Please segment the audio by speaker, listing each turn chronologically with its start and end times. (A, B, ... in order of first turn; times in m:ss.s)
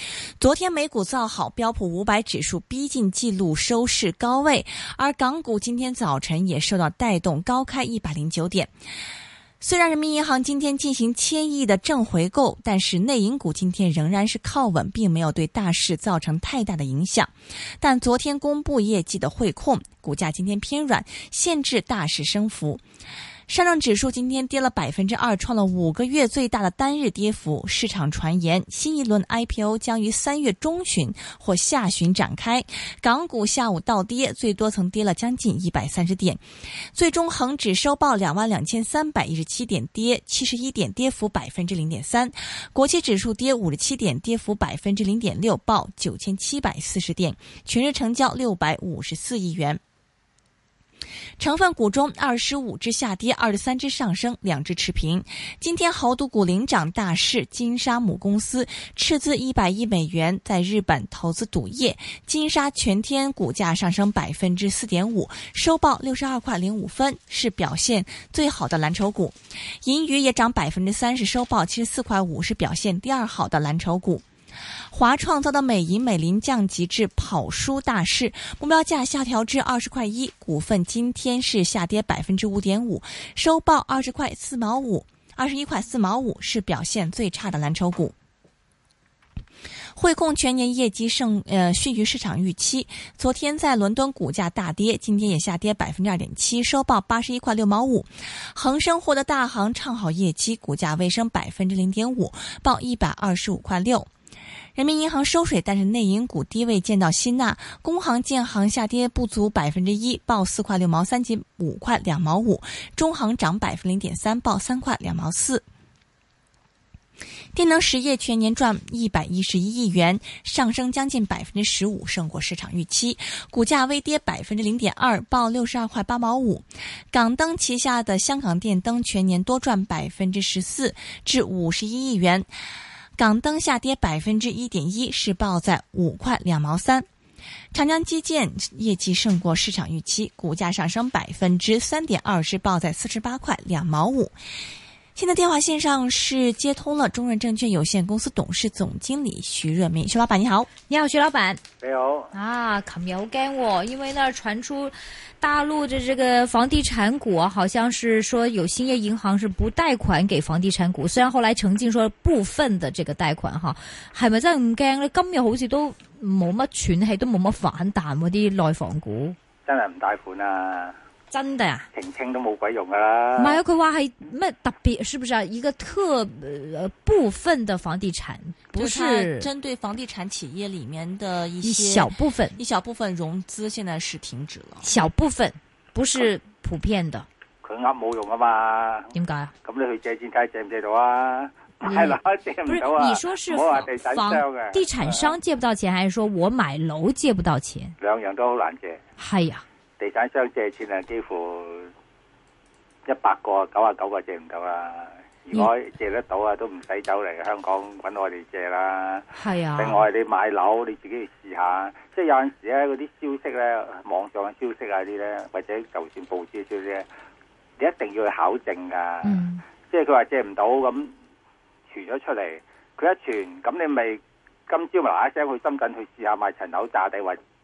0:00.4-0:08.7 A
0:09.6-0:22.8 A
0:23.5-0:36.4 A
0:36.9-0:49.8 A
0:51.4-1:14.2 A
1:14.9-1:28.1 A
1:29.9-1:44.1 A
1:44.7-1:55.6 A
1:57.5-2:12.5 A
2:13.2-2:17.0 A
2:17.7-2:24.3 A
2:25.1-2:30.7 A
2:30.9-2:31.6 B
2:31.8-2:32.3 C
2:32.3-2:49.4 B
2:49.6-2:51.0 C
2:51.3-2:51.9 B
2:51.9-2:53.6 C
2:53.4-2:59.5 B
2:58.8-3:04.9 A
3:01.6-3:02.6 B
3:04.8-3:07.3 B
3:07.6-3:15.4 C
3:09.1-3:09.5 B
3:11.8-3:18.0 B
3:18.0-3:19.0 C
3:19.2-3:19.6 B
3:20.0-3:21.9 C
3:23.0-3:37.1 C
3:29.3-3:30.0 B
3:37.8-3:41.1 C
3:39.2-3:39.6 B
3:41.9-3:47.4 C